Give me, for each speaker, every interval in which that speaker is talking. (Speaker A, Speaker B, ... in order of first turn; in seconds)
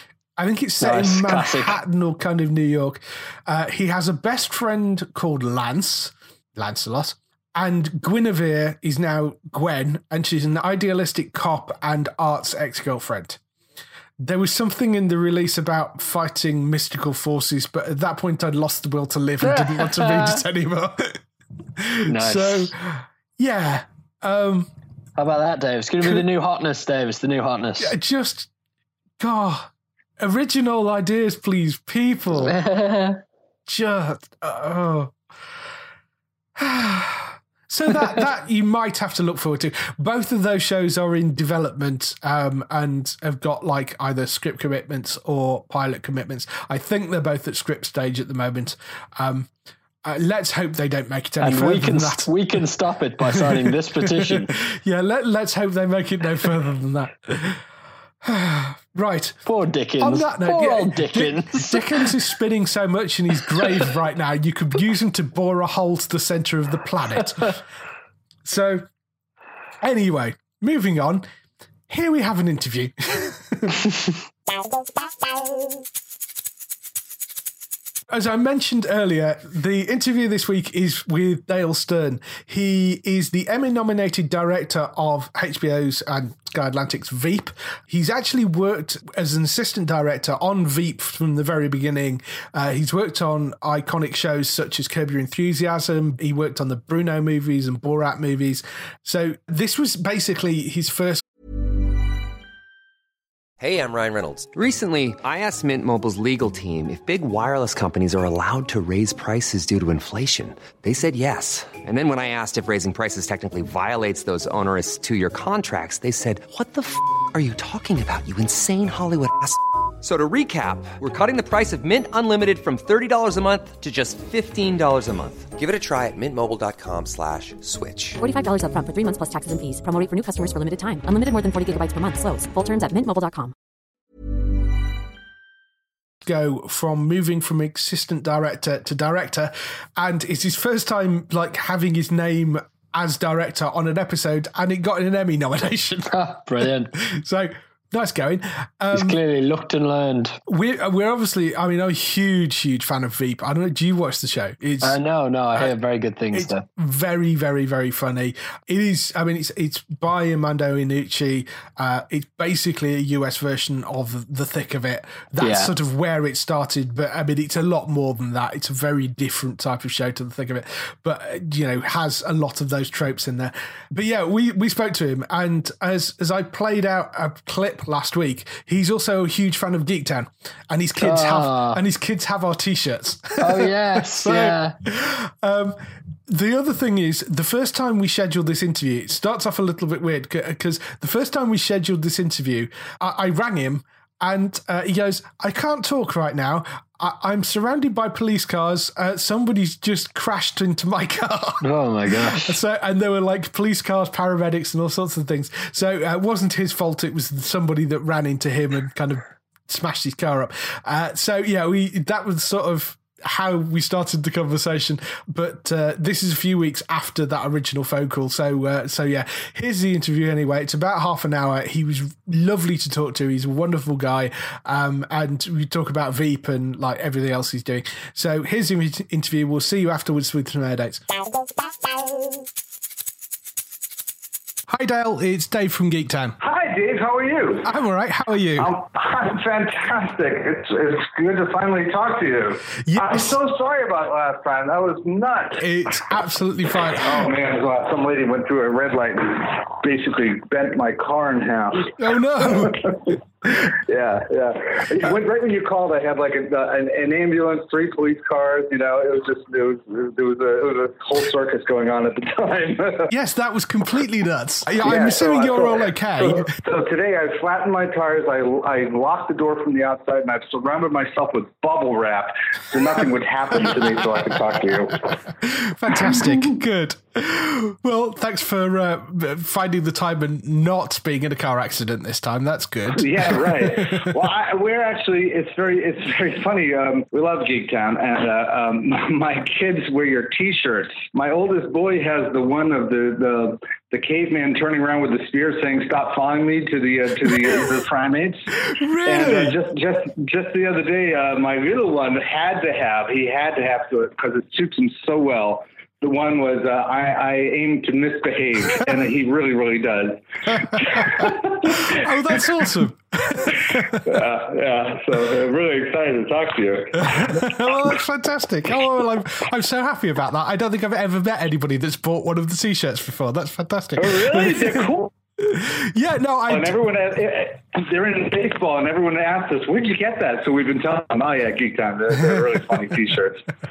Speaker A: 0.4-13.4, 14.2-21.2, 21.8-24.7, 27.8-28.5, 29.2-32.6, 33.7-35.1, 36.6-49.5, 50.0-52.6, 53.3-57.6, 58.2-59.4, 60.0-67.6, 68.5-68.9, 69.8-71.2, 71.9-74.0, 78.1-101.2, 136.2-149.2, 150.5-155.0, 156.3-231.0, 234.7-236.4, 237.7-238.7, 242.8-243.4, 245.6-247.3, 251.9-253.7, 263.1-266.5, 275.4-284.1, 298.6-299.6, 311.1-314.2, 317.0-326.8
Speaker B: 0.8-1.8, 19.4-20.4, 22.1-22.7, 25.2-27.9, 32.4-33.2, 51.4-54.5, 59.5-62.1, 146.1-146.9, 148.9-150.4, 154.8-156.6, 165.4-165.7, 181.0-181.8, 183.4-184.8, 201.6-202.5
Speaker C: 103.6-128.2
Speaker D: 128.2-133.5
Speaker E: 236.4-237.7, 238.6-245.6, 246.9-263.1, 264.8-275.1, 282.9-298.5, 299.1-312.1, 313.6-317.6, 324.0-325.1, 326.5-333.4